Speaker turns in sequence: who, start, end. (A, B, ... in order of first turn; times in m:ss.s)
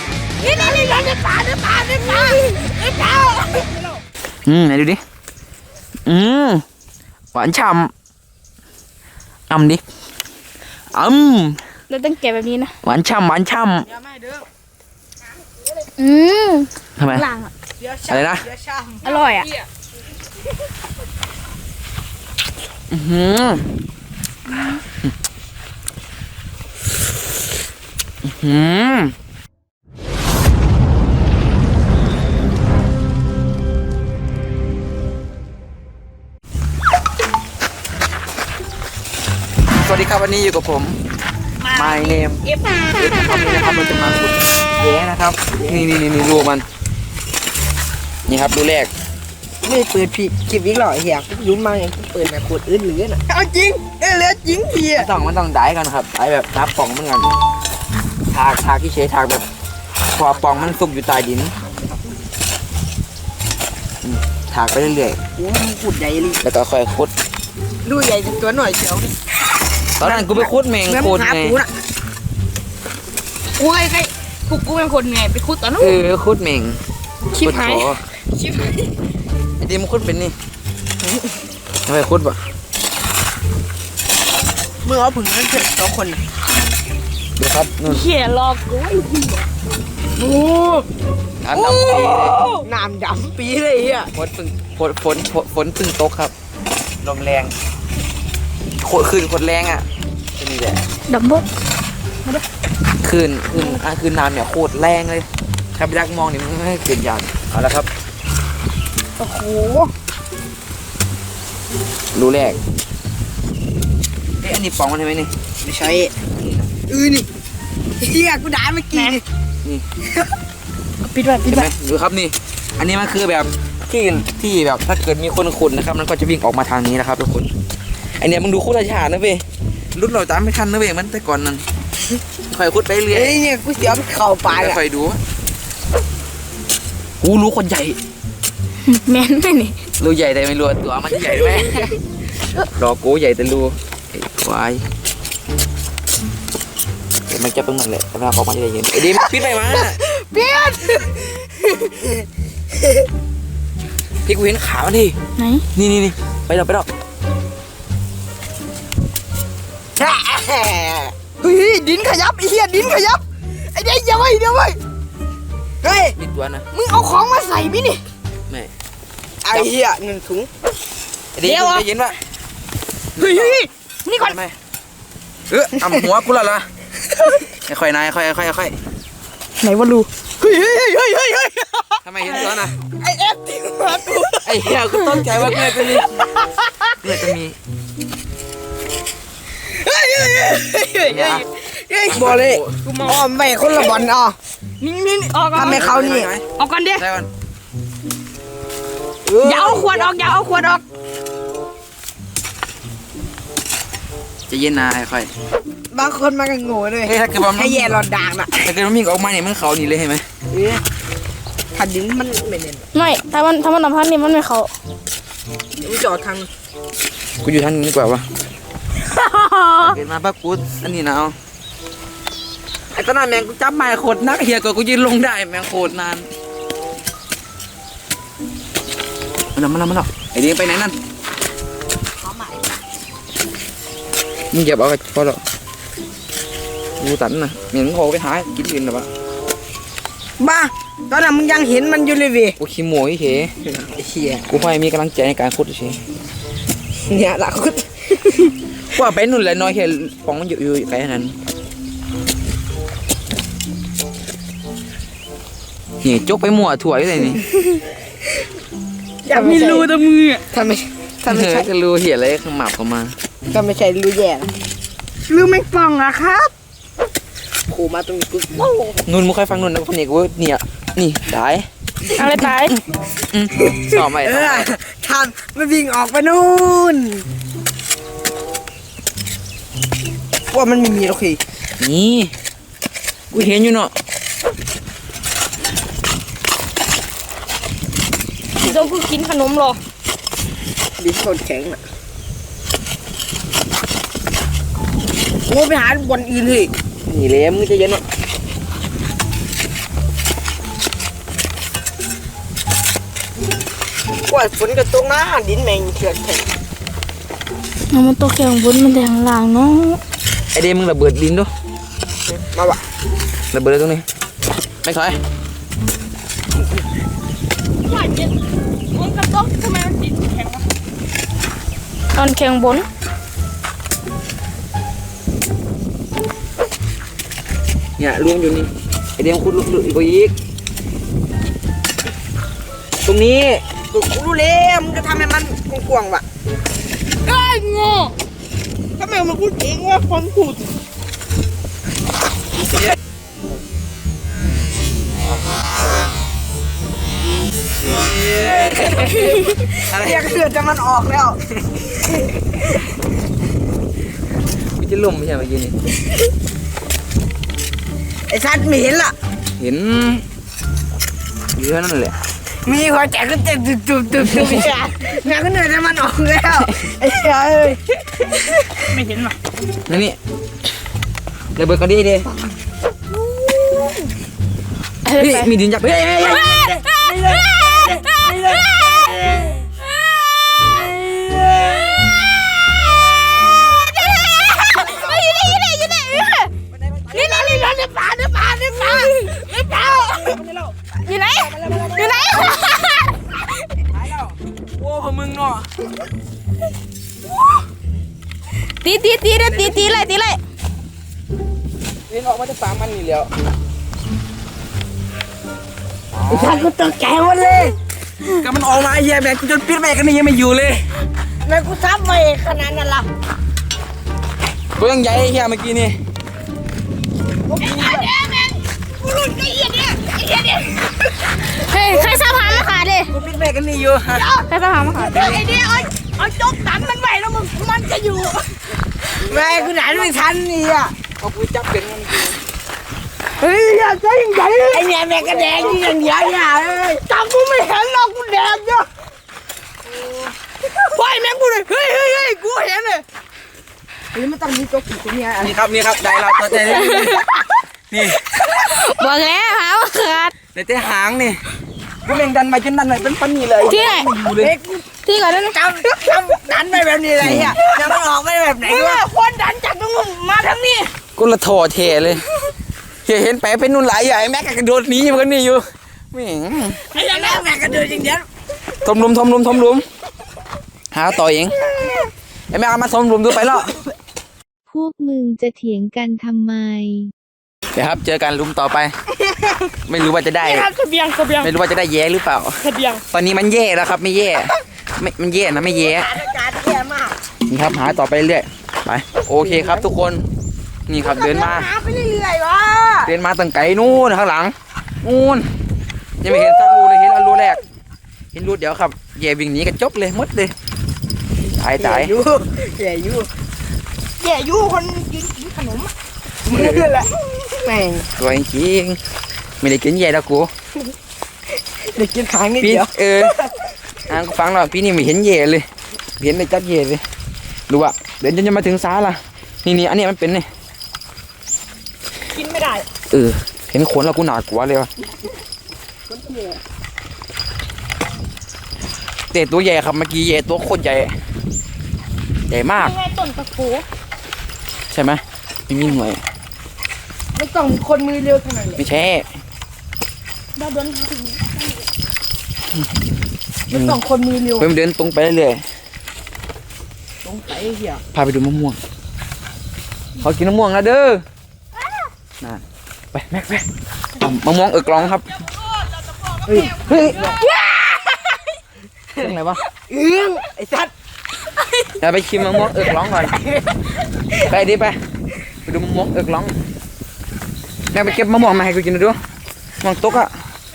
0:00.4-0:04.0 A
0:00.4-0:00.8 B
0:04.4-0:05.0 C
0:06.0-0:06.6 C
0:07.3-0:07.9 C
0:09.5-0:09.8 C
0:10.9-0:11.6 C
0:11.9-0:12.7 B
0:12.8-0:13.9 C
0:13.9-0:14.4 A
0:16.0-0:17.5 B
0:17.0-0:17.2 C
0:17.8-0:19.0 A
0:18.0-0:18.5 C
0:19.0-0:19.6 B
0:22.9-0:23.7 C
0:28.2-0:29.1 C
0:39.8-0:41.0 C
0:41.6-0:42.7 B
0:41.7-0:46.6 C
0:48.3-0:48.9 C
0:49.6-0:55.1 A
0:54.9-0:57.3 C
0:58.3-0:59.4 C
1:00.1-1:01.6 C
1:04.0-1:05.2 C
1:05.4-1:06.4 A
1:06.4-1:07.1 C
1:07.8-1:09.2 A
1:10.0-1:11.6 C
1:10.0-1:11.7 A
1:13.6-1:14.1 A
1:14.5-1:15.9 B
1:15.8-1:16.8 C
1:17.3-1:18.7 B
1:17.4-1:18.0 C
1:19.6-1:20.3 C
1:21.8-1:22.4 C
1:24.8-1:26.2 A
1:27.4-1:28.1 C
1:27.8-1:29.5 B
1:30.2-1:30.8 A
1:31.4-1:32.4 C
1:31.5-1:34.1 A
1:34.1-1:36.3 C
1:37.0-1:37.5 C
1:38.8-1:39.8 C
1:40.4-1:40.8 C
1:41.1-1:41.4 B
1:43.0-1:47.9 C
1:49.2-1:49.9 A
1:52.1-1:52.6 C
1:54.4-1:55.3 C
1:55.6-1:56.1 A
1:56.9-1:57.3 A
1:58.0-1:59.2 A
1:58.9-1:59.2 B
2:01.0-2:01.7 B
2:01.5-2:07.5 C
2:08.2-2:11.6 C
2:12.5-2:13.4 C
2:13.1-2:14.8 A
2:14.6-2:15.2 C
2:17.2-2:18.0 C
2:18.8-2:19.8 B
2:20.0-2:21.9 C
2:22.7-2:24.9 C
2:27.3-2:30.0 C
2:28.9-2:32.2 A
2:34.2-2:35.2 C
2:35.4-2:35.6 B
2:35.7-2:36.9 C
2:40.0-2:44.8 A
2:45.8-2:46.2 A
2:46.2-2:46.7 C
2:46.7-2:48.0 A
2:49.4-2:50.5 A
2:51.3-2:52.2 C
2:51.4-2:51.8 A
2:53.2-2:53.6 C
2:53.2-2:54.4 A
2:54.2-2:54.6 C
2:55.5-2:56.7 C
2:57.6-2:58.8 C
2:59.6-3:00.1 B
3:00.4-3:04.5 A
3:02.0-3:02.8 C
3:04.4-3:06.1 C
3:05.1-3:06.9 A
3:07.0-3:07.6 C
3:09.6-3:14.4 A
3:11.1-3:11.4 C
3:12.1-3:12.8 C
3:12.9-3:13.2 B
3:14.8-3:15.8 B
3:15.5-3:16.3 A
3:15.6-3:17.3 C
3:16.6-3:17.0 B
3:19.2-3:20.1 A
3:19.4-3:20.8 B
3:24.5-3:25.3 C
3:25.9-3:28.5 A
3:27.0-3:27.9 C
3:28.6-3:30.2 C
3:30.5-3:30.8 A
3:31.7-3:32.8 A
3:32.9-3:34.7 B
3:35.8-3:36.5 A
3:37.4-3:38.2 C
3:39.2-3:39.9 B
3:39.9-3:41.4 C
3:42.9-3:46.3 C
3:49.5-3:51.0 C
3:52.2-3:52.6 A
3:54.5-3:55.4 C
3:57.0-3:59.1 C
4:00.4-4:02.6 A
4:02.6-4:03.5 C
4:03.7-4:04.4 A
4:04.5-4:06.0 C
4:07.1-4:08.5 A
4:08.9-4:11.4 C
4:16.0-4:17.4 C
4:19.2-4:19.9 A
4:19.3-4:20.4 B
4:20.5-4:21.7 A
4:21.2-4:23.1 C
4:23.5-4:24.5 A
4:25.3-4:26.5 A
4:27.7-4:29.0 A
4:29.0-4:31.7 C
4:32.1-4:32.7 B
4:33.3-4:34.7 C
4:33.8-4:37.2 A
4:40.5-4:41.4 A
4:41.8-4:42.3 C
4:43.3-4:43.9 C
4:48.6-4:49.8 B
4:51.0-4:51.8 A
4:55.5-4:58.0 A
5:04.3-5:06.5 A
5:07.9-5:10.0 B
5:10.5-5:11.5 C
5:12.5-5:12.8 A
5:13.5-5:14.0 C
5:14.8-5:15.2 C
5:17.9-5:18.3 B
5:18.9-5:20.6 B
5:22.1-5:22.9 B
5:28.0-5:30.3 C
5:33.0-5:33.6 C
5:33.9-5:36.2 A
5:37.3-5:38.1 A
5:39.0-5:40.7 A
5:48.7-5:51.4 A
5:49.9-5:50.2 C
5:54.8-5:55.8 C
5:58.3-5:59.1 A
5:59.6-6:00.2 C
6:01.5-6:02.1 C
6:02.6-6:09.0 A
6:08.9-6:09.3 B
6:09.9-6:10.2 C
6:11.6-6:12.3 C
6:15.0-6:15.5 B
6:15.2-6:16.5 C
6:16.5-6:18.6 B
6:23.6-6:26.5 B
6:24.8-6:25.1 A
6:27.0-6:30.7 A
6:27.2-6:27.7 B
6:28.8-6:29.3 B
6:31.0-6:33.3 B
6:31.4-6:32.4 A
6:33.9-6:35.7 C
6:38.8-6:40.4 B
6:39.4-6:39.8 C
6:42.1-6:43.3 C
6:46.1-6:46.7 C
6:46.3-6:47.8 A
6:48.4-6:51.0 C
6:51.4-6:53.1 A
6:54.8-6:56.0 C
6:57.5-7:01.1 A
6:57.6-6:58.1 C
7:01.5-7:03.1 B
7:03.1-7:04.2 C
7:04.1-7:08.6 A
7:04.4-7:05.4 B
7:09.1-7:11.0 A
7:09.2-7:10.1 C
7:11.2-7:12.4 C
7:13.4-7:18.9 A
7:15.2-7:15.8 C
7:19.9-7:23.0 A
7:24.1-7:25.6 A
7:25.4-7:27.2 C
7:26.6-7:27.3 B
7:27.9-7:28.6 C
7:28.5-7:30.3 B
7:30.5-7:31.4 C
7:32.0-7:34.5 C
7:33.6-7:34.1 B
7:34.4-7:34.9 A
7:35.0-7:35.6 B
7:35.5-7:40.9 A
7:37.2-7:37.6 C
7:38.6-7:39.0 C
7:41.1-7:42.2 C
7:43.0-7:46.8 C
7:46.9-7:48.2 A
7:48.8-7:49.8 C
7:50.9-7:51.6 C
7:52.5-7:53.8 C
7:54.7-7:57.1 D
7:57.7-7:58.9 C
7:59.3-7:59.6 A
7:59.8-8:00.7 C
8:00.4-8:01.5 B
8:01.4-8:06.2 C
8:02.6-8:03.0 B
8:05.7-8:07.2 A
8:07.5-8:10.2 C
8:09.4-8:09.9 A
8:10.9-8:11.7 C
8:11.0-8:13.1 A
8:13.0-8:15.5 C
8:16.2-8:17.6 C
8:18.3-8:20.5 C
8:21.5-8:22.1 C
8:21.8-8:23.3 A
8:24.2-8:25.9 A
8:26.4-8:28.1 A
8:28.2-8:29.0 C
8:29.6-8:30.5 C
8:31.8-8:33.2 A
8:32.6-8:33.4 C
8:34.1-8:35.6 C
8:36.2-8:37.0 C
8:37.7-8:40.5 C
8:42.4-8:42.8 A
8:43.1-8:44.9 C
8:46.1-8:46.6 A
8:49.3-8:51.1 C
8:52.5-8:52.9 C
8:52.8-8:53.8 B
8:54.9-8:56.2 C
8:57.3-8:58.8 A
8:58.8-8:59.3 C
9:00.6-9:01.8 B
9:03.7-9:04.7 A
9:03.7-9:04.0 C
9:04.6-9:05.6 C
9:07.2-9:08.0 A
9:08.1-9:08.8 C
9:10.2-9:11.2 C
9:12.4-9:13.6 C
9:14.2-9:15.3 C
9:16.4-9:18.0 A
9:16.7-9:17.4 C
9:19.2-9:19.6 C
9:19.9-9:20.9 A
9:22.0-9:23.3 C
9:24.4-9:25.0 C
9:25.6-9:26.6 C
9:27.9-9:29.2 C
9:29.8-9:30.3 C